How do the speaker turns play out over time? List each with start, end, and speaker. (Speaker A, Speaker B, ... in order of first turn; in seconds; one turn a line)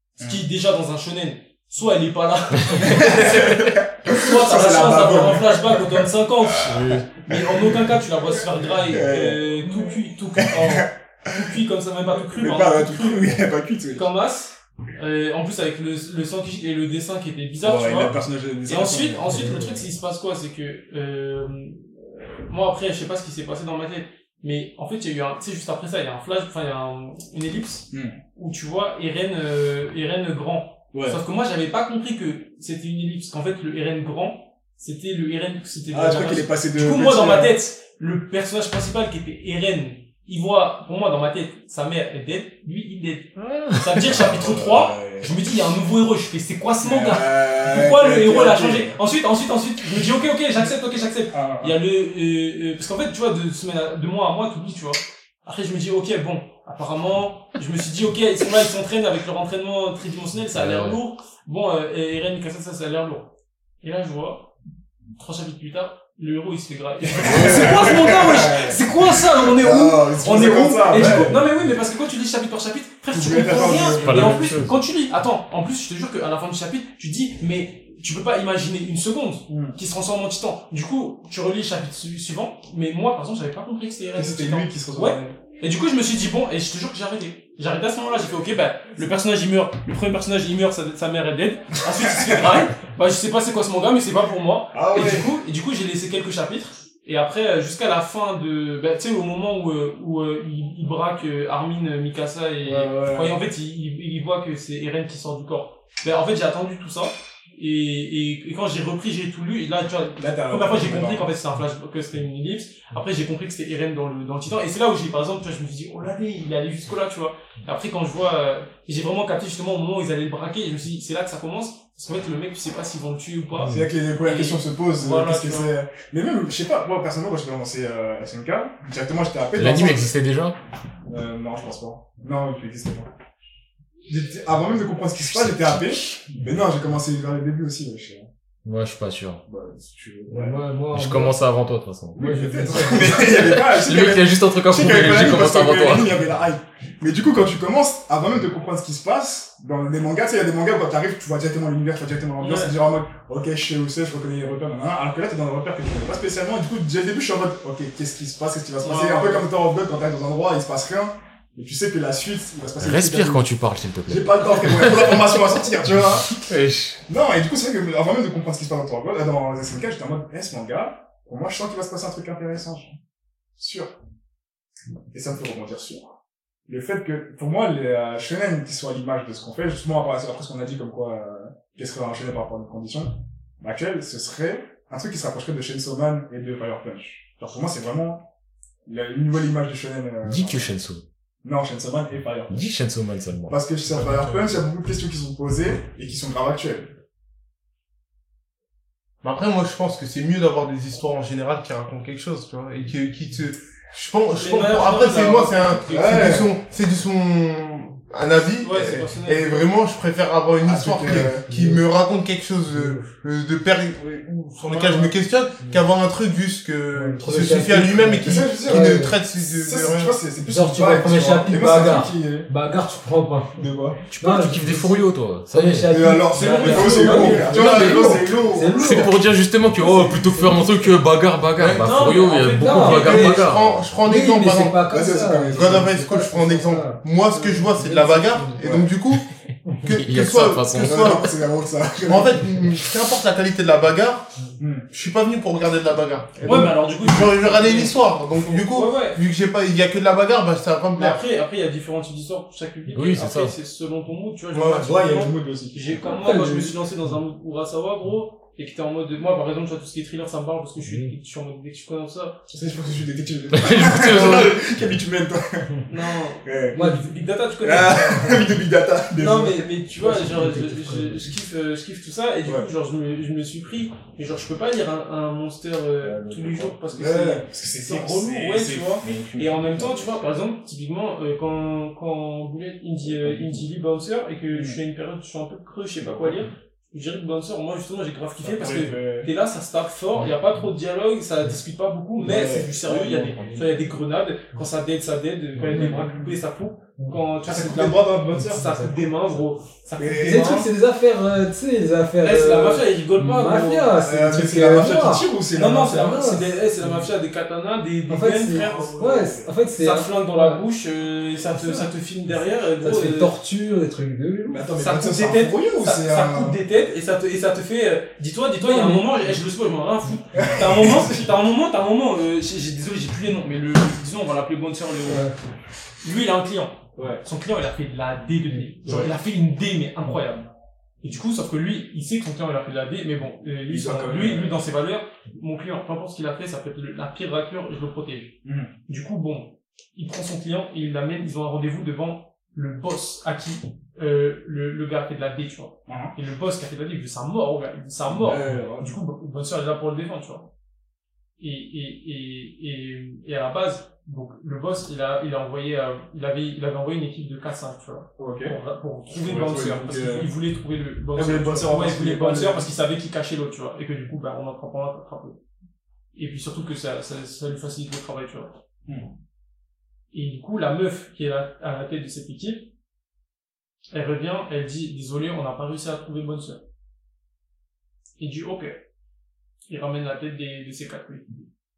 Speaker A: 0.2-13.4
Speaker B: 2.8-7.9
Speaker C: 6.6-7.2
Speaker B: 8.9-9.4
Speaker B: 10.4-11.6
Speaker B: 12.3-14.1
Speaker A: 13.9-18.1
Speaker B: 17.6-19.5
Speaker A: 18.7-63.3
Speaker D: 19.2-19.8
Speaker B: 27.9-28.2
Speaker B: 30.9-31.2
Speaker B: 35.9-37.5
Speaker C: 43.4-43.8
Speaker B: 44.1-45.3
Speaker B: 46.8-49.0
Speaker B: 51.3-51.8
Speaker C: 60.5-61.0
Speaker A: 63.8-64.5
Speaker A: 65.2-125.8
Speaker B: 67.0-71.5
Speaker C: 67.2-67.8
Speaker B: 73.1-74.5
Speaker C: 74.0-74.8
Speaker B: 79.5-79.8
Speaker B: 84.2-85.4
Speaker B: 91.8-92.7
Speaker B: 94.7-95.3
Speaker B: 102.6-103.4
Speaker B: 110.2-111.3
Speaker B: 123.7-130.2
Speaker C: 129.6-130.6
Speaker B: 131.1-133.1
Speaker B: 134.1-138.3
Speaker C: 135.2-136.4
Speaker C: 138.7-139.4
Speaker B: 139.5-140.6
Speaker D: 140.3-141.4
Speaker C: 140.9-146.1
Speaker B: 142.2-163.4
Speaker D: 142.2-143.2
Speaker A: 152.4-152.7
Speaker A: 158.8-159.5
Speaker C: 162.8-165.6
Speaker B: 164.1-166.4
Speaker C: 166.3-167.0
Speaker B: 167.1-173.0
Speaker B: 173.6-173.9
Speaker B: 175.1-176.2
Speaker B: 176.7-188.2
Speaker B: 188.9-190.7
Speaker C: 190.2-191.0
Speaker B: 191.4-192.6
Speaker C: 192.5-193.6
Speaker B: 193.5-196.9
Speaker E: 194.0-194.6
Speaker E: 199.2-220.2
Speaker A: 204.3-206.4
Speaker B: 205.9-206.5
Speaker A: 208.6-209.7
Speaker B: 210.6-211.5
Speaker D: 211.5-211.8
Speaker D: 212.7-213.1
Speaker A: 214.6-215.1
Speaker D: 216.9-219.2
Speaker B: 218.2-222.5
Speaker D: 220.4-229.2
Speaker B: 223.6-224.0
Speaker C: 224.1-225.9
Speaker B: 225.9-228.9
Speaker A: 226.3-227.5
Speaker E: 227.1-228.6
Speaker C: 227.4-233.9
Speaker D: 229.8-230.9
Speaker D: 231.6-233.5
Speaker A: 231.8-233.3
Speaker E: 233.0-234.8
Speaker D: 234.0-238.6
Speaker B: 234.9-235.9
Speaker E: 235.5-239.3
Speaker B: 238.6-238.9
Speaker E: 239.8-241.3
Speaker C: 239.8-241.3
Speaker B: 240.7-242.5
Speaker E: 242.0-244.3
Speaker B: 244.6-244.9
Speaker E: 244.9-251.2
Speaker A: 246.4-249.2
Speaker B: 246.4-246.7
Speaker A: 250.9-262.5
Speaker C: 252.9-253.6
Speaker E: 254.5-254.9
Speaker B: 254.8-256.2
Speaker D: 256.2-256.8
Speaker D: 260.8-261.1
Speaker B: 262.5-265.8
Speaker C: 263.6-264.6
Speaker A: 265.9-268.5
Speaker B: 266.4-266.9
Speaker D: 266.7-267.1
Speaker B: 267.6-269.6
Speaker A: 269.2-300.7
Speaker D: 269.5-271.3
Speaker B: 276.0-280.2
Speaker B: 283.2-283.6
Speaker B: 284.5-284.8
Speaker B: 286.0-286.4
Speaker B: 288.4-289.3
Speaker B: 292.2-293.6
Speaker D: 295.6-296.0
Speaker B: 295.7-296.4
Speaker B: 297.4-298.7
Speaker D: 298.3-299.1
Speaker B: 300.0-300.6
Speaker D: 300.2-305.3
Speaker A: 302.2-303.9
Speaker B: 304.0-306.1
Speaker A: 305.5-313.3
Speaker D: 305.8-307.1
Speaker D: 308.1-310.6
Speaker B: 308.6-309.5
Speaker D: 311.5-311.9
Speaker D: 312.4-314.6
Speaker B: 314.5-316.6
Speaker A: 314.8-325.3
Speaker D: 318.6-319.3
Speaker B: 320.3-321.2
Speaker D: 325.1-325.4
Speaker A: 326.0-330.5
Speaker B: 327.0-327.2
Speaker B: 328.9-329.1
Speaker A: 331.0-350.5
Speaker B: 333.7-334.6
Speaker B: 338.4-338.7
Speaker B: 345.9-346.1
Speaker B: 348.1-349.0
Speaker A: 351.4-365.4
Speaker B: 358.2-358.6
Speaker B: 359.2-360.3
Speaker B: 361.1-362.7
Speaker A: 366.1-368.6
Speaker A: 370.1-372.7
Speaker A: 373.9-376.6
Speaker A: 378.2-378.8
Speaker A: 379.7-381.4